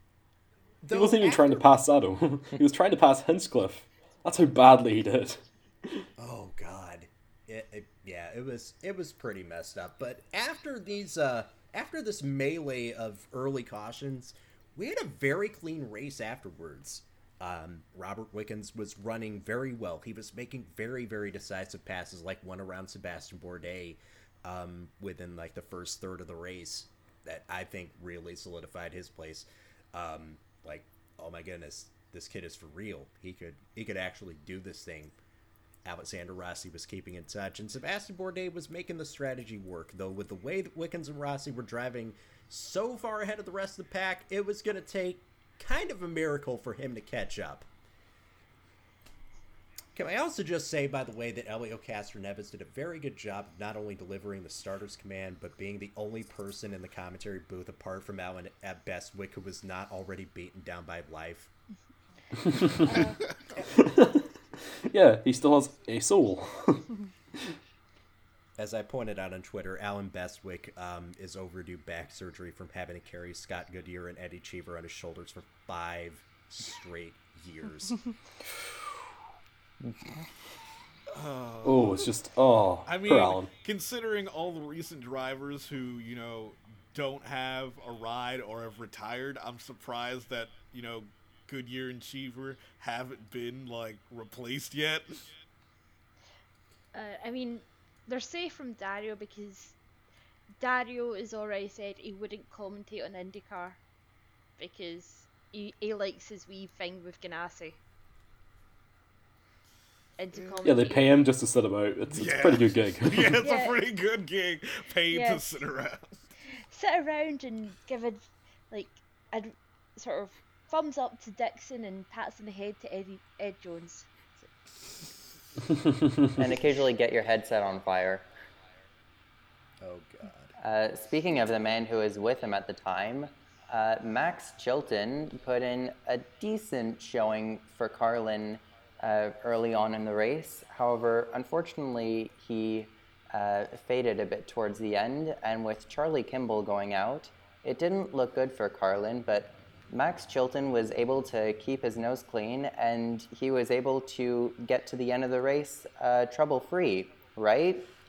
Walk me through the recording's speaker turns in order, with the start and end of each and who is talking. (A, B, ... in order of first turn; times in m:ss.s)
0:00.8-0:01.7 A
0:00.9-0:06.1 B
0:06.2-0:35.2 A
0:35.8-0:47.7 A
0:50.0-1:01.5 A
1:02.5-1:02.7 B
1:02.8-1:03.2 C
1:03.8-1:04.2 B
1:04.8-1:06.9 B
1:08.6-1:18.0 A
1:19.9-1:20.2 D
1:21.1-1:22.1 E
1:21.6-1:23.5 B
1:22.9-1:35.3 E
1:36.9-1:39.8 C
1:40.6-1:43.8 C
1:44.6-1:47.8 C
1:50.2-1:51.1 C
1:50.6-1:53.4 B
1:52.1-1:56.1 E
1:53.4-1:53.8 C
1:55.1-1:55.5 C
1:56.6-2:04.5 C
2:06.0-2:06.3 B
2:06.4-2:08.3 D
2:09.8-2:10.5 A
2:10.6-2:37.9 D